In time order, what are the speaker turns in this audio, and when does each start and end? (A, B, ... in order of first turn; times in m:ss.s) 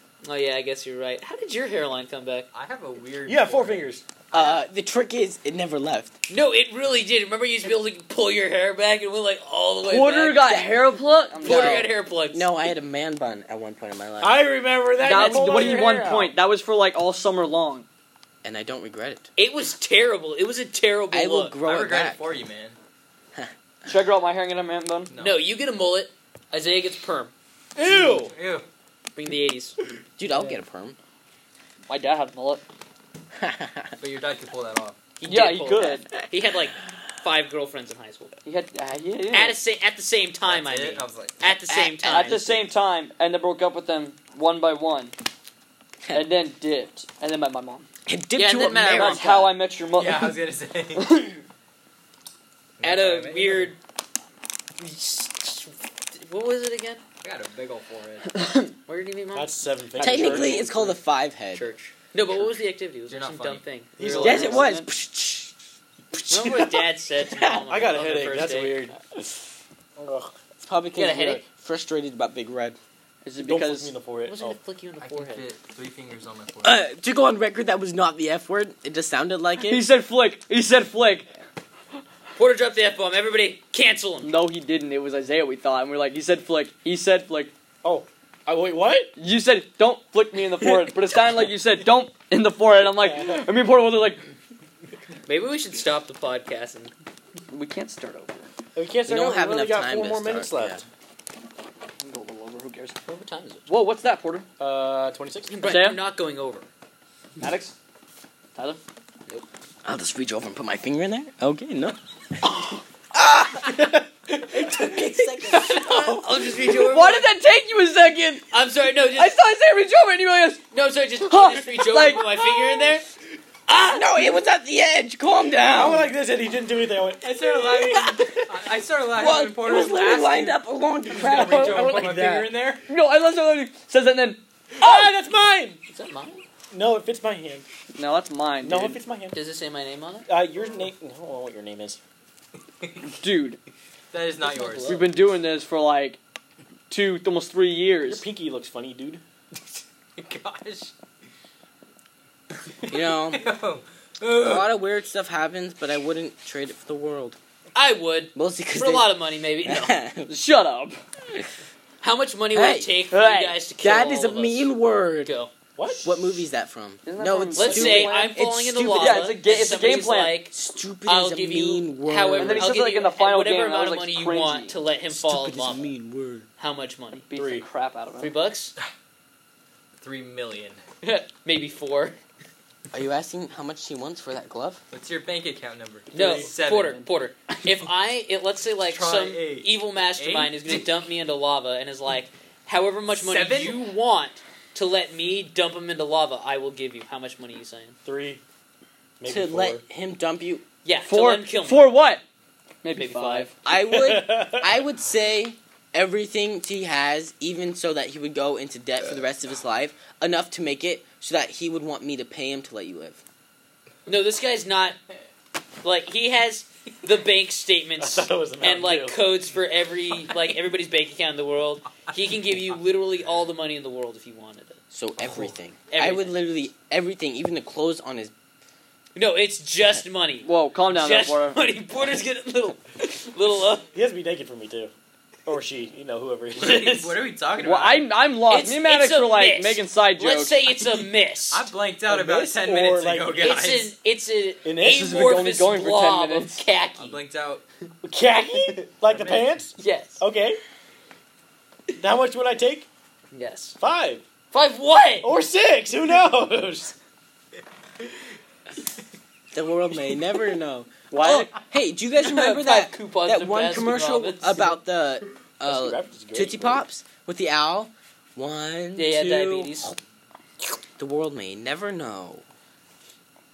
0:00.2-0:02.5 A
0:02.5-0:03.9 B
0:03.3-0:04.0 C
0:04.3-0:04.6 A
0:04.3-0:06.1 D
0:06.3-0:10.5 A
0:09.9-0:11.9 E
0:10.4-0:10.7 D
0:11.4-0:12.5 A
0:11.4-0:14.4 D
0:14.2-0:16.4 C
0:15.0-0:17.9 E
0:18.4-0:19.3 D
0:19.4-0:21.6 A
0:21.1-0:22.2 D
0:21.6-0:22.8 B
0:23.9-0:25.1 E
0:25.1-0:25.4 B
0:25.1-0:27.3 A
0:27.8-0:28.3 C
0:27.9-0:28.6 B
0:29.1-0:29.8 A
0:30.2-0:31.0 D
0:31.9-0:32.6 E
0:33.4-0:33.9 D
0:34.0-0:35.0 B
0:35.2-0:38.3 A
0:35.3-0:36.1 E
0:38.5-0:39.6 E
0:39.3-0:42.4 A
0:40.5-0:41.4 B
0:41.7-0:42.6 D
0:42.0-0:45.1 E
0:46.1-0:47.9 E
0:48.1-0:49.3 D
0:48.4-0:49.5 A
0:48.8-0:50.4 E
0:50.0-0:51.1 B
0:51.0-0:51.4 E
0:52.8-0:53.7 B
0:52.8-0:53.8 A
0:54.8-0:57.0 A
0:57.2-0:58.3 B
0:58.4-0:58.7 E
0:58.9-1:00.6 A
0:59.4-1:01.0 C
1:00.0-1:01.7 D
1:01.5-1:04.6 A
1:03.1-1:03.6 B
1:04.0-1:04.7 C
1:04.2-1:05.5 D
1:04.5-1:04.9 E
1:06.2-1:07.6 D
1:06.3-1:08.9 A
1:07.7-1:09.0 C
1:10.0-1:10.3 C
1:10.6-1:12.8 D
1:11.0-1:11.4 A
1:13.2-1:13.9 E
1:13.4-1:14.6 C
1:14.3-1:15.4 A
1:15.0-1:16.8 B
1:16.6-1:19.8 D
1:19.6-1:21.3 E
1:22.4-1:24.3 A
1:24.2-1:27.5 E
1:27.8-1:29.1 C
1:29.2-1:34.2 E
1:32.9-1:33.4 C
1:35.3-1:36.9 A
1:37.5-1:38.5 E
1:38.8-1:40.8 C
1:39.1-1:40.8 D
1:42.0-1:43.0 E
1:43.1-1:43.7 A
1:43.7-1:44.5 E
1:44.6-1:45.6 C
1:45.5-1:46.7 A
1:45.6-1:46.0 E
1:47.4-1:47.8 E
1:48.6-1:48.8 E
1:49.8-1:52.6 D
1:53.1-1:53.9 D
1:53.8-1:55.0 C
1:54.5-1:56.6 D
1:55.5-1:57.3 A
1:56.8-1:58.5 E
1:58.5-1:59.4 A
1:59.1-2:00.6 E
2:00.7-2:03.0 A
2:01.3-2:02.3 E
2:03.7-2:04.1 A
2:03.7-2:06.1 D
2:05.7-2:08.1 C
2:07.2-2:12.8 B
2:07.8-2:08.4 D
2:09.2-2:12.5 D
2:11.4-2:11.8 E
2:11.6-2:11.9 C
2:12.9-2:14.9 E
2:14.8-2:15.8 C
2:15.9-2:16.4 A
2:16.7-2:17.7 C
2:18.0-2:19.0 E
2:18.6-2:19.4 C
2:19.3-2:20.3 A
2:20.3-2:22.0 C
2:23.1-2:23.6 E
2:24.1-2:25.0 B
2:24.4-2:25.1 A
2:24.8-2:26.2 E
2:26.9-2:28.2 E
2:28.0-2:29.2 C
2:30.2-2:30.9 B
2:32.9-2:33.4 D
2:33.3-2:34.7 B
2:34.4-2:37.4 D
2:37.8-2:40.0 A
2:38.4-2:40.4 D
2:40.3-2:41.0 E
2:42.0-2:44.7 A
2:42.5-2:45.3 D
2:43.2-2:43.6 E
2:45.2-2:45.5 A
2:45.8-2:46.5 C
2:46.0-2:49.3 D
2:47.1-2:48.3 E
2:47.6-2:55.9 A
2:48.9-2:50.4 E
2:50.5-2:52.8 D
2:52.4-2:54.8 E
2:55.1-2:56.5 D
2:56.6-2:57.3 A
2:57.3-2:58.3 E
2:57.3-2:57.6 C
2:58.2-2:58.8 A
3:00.0-3:00.8 B
3:01.0-3:02.2 A
3:02.9-3:04.8 D
3:04.9-3:07.0 B
3:06.1-3:18.0 A
3:06.1-3:06.5 E
3:08.8-3:10.9 B
3:13.1-3:13.8 B
3:18.0-3:18.4 C
3:19.2-3:19.8 C
3:19.3-3:20.6 D
3:20.8-3:21.9 A
3:21.0-3:22.2 E
3:22.8-3:23.6 E
3:23.0-3:23.5 A
3:23.6-3:33.2 D
3:23.7-3:24.7 C
3:34.1-3:35.0 A
3:35.8-3:44.8 A
3:38.0-3:39.2 C
3:44.9-3:48.3 D
3:45.2-3:45.5 C
3:45.9-3:46.4 A
3:49.2-3:53.9 A
3:50.4-3:51.6 E
3:53.9-3:54.9 C
3:55.5-3:57.2 C
3:56.6-3:58.1 B
3:57.6-4:00.7 E
3:58.5-4:01.7 A
4:01.5-4:03.9 B
4:02.1-4:03.5 C
4:03.4-4:07.2 A
4:04.6-4:05.4 C
4:04.9-4:06.6 E
4:07.0-4:07.6 B
4:08.0-4:10.6 C
4:09.1-4:09.5 B
4:09.8-4:10.2 A
4:12.0-4:12.9 C
4:13.3-4:13.8 A
4:13.8-4:14.2 C
4:14.5-4:15.3 A
4:15.2-4:16.9 C
4:19.5-4:30.0 D
4:21.1-4:21.5 E
4:22.2-4:24.8 A
4:25.7-4:26.8 C
4:29.0-4:30.0 A
4:31.0-4:32.4 D